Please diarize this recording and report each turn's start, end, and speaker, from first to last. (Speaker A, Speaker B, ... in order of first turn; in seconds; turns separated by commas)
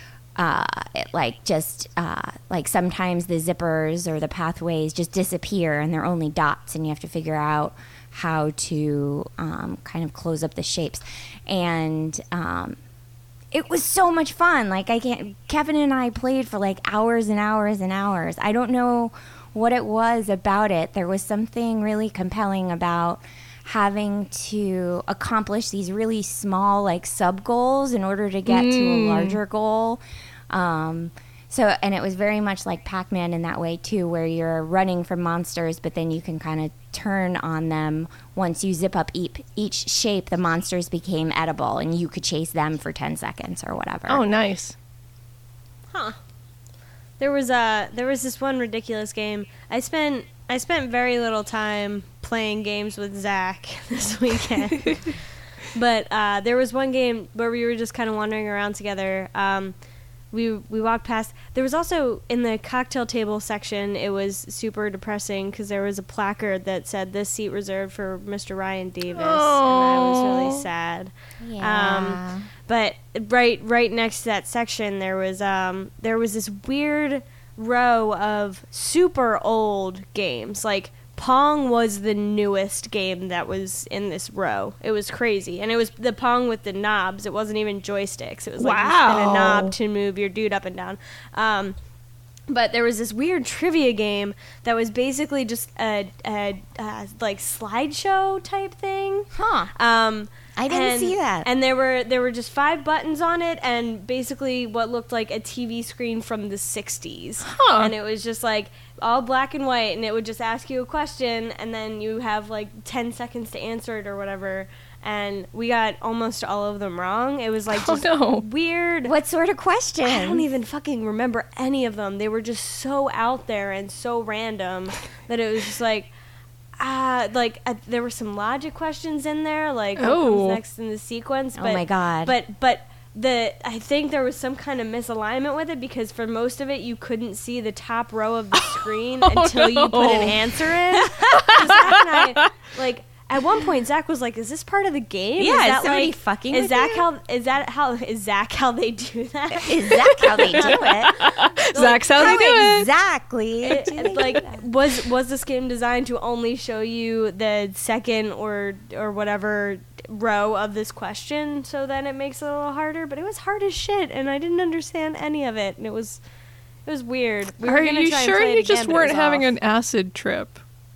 Speaker A: 0.4-12.8, Speaker A: 13.5-44.2, Speaker B: 28.5-29.4, Speaker B: 44.1-44.8, Speaker C: 47.2-55.2, Speaker C: 55.7-59.8, Speaker C: 60.3-91.8, Speaker B: 69.2-70.7, Speaker A: 71.4-72.5, Speaker B: 88.6-89.8, Speaker C: 92.5-119.1, Speaker A: 99.3-99.7, Speaker A: 100.6-101.5, Speaker B: 107.5-107.9, Speaker B: 117.7-118.5, Speaker A: 119.1-120.4, Speaker C: 120.0-126.1, Speaker C: 126.8-152.8, Speaker B: 130.0-130.6, Speaker A: 131.6-132.3, Speaker B: 138.6-140.5, Speaker B: 141.4-142.0, Speaker A: 145.4-147.1, Speaker A: 149.6-151.2, Speaker B: 150.2-152.9, Speaker A: 152.2-154.6, Speaker C: 153.6-166.2, Speaker C: 166.9-169.5, Speaker B: 167.6-170.6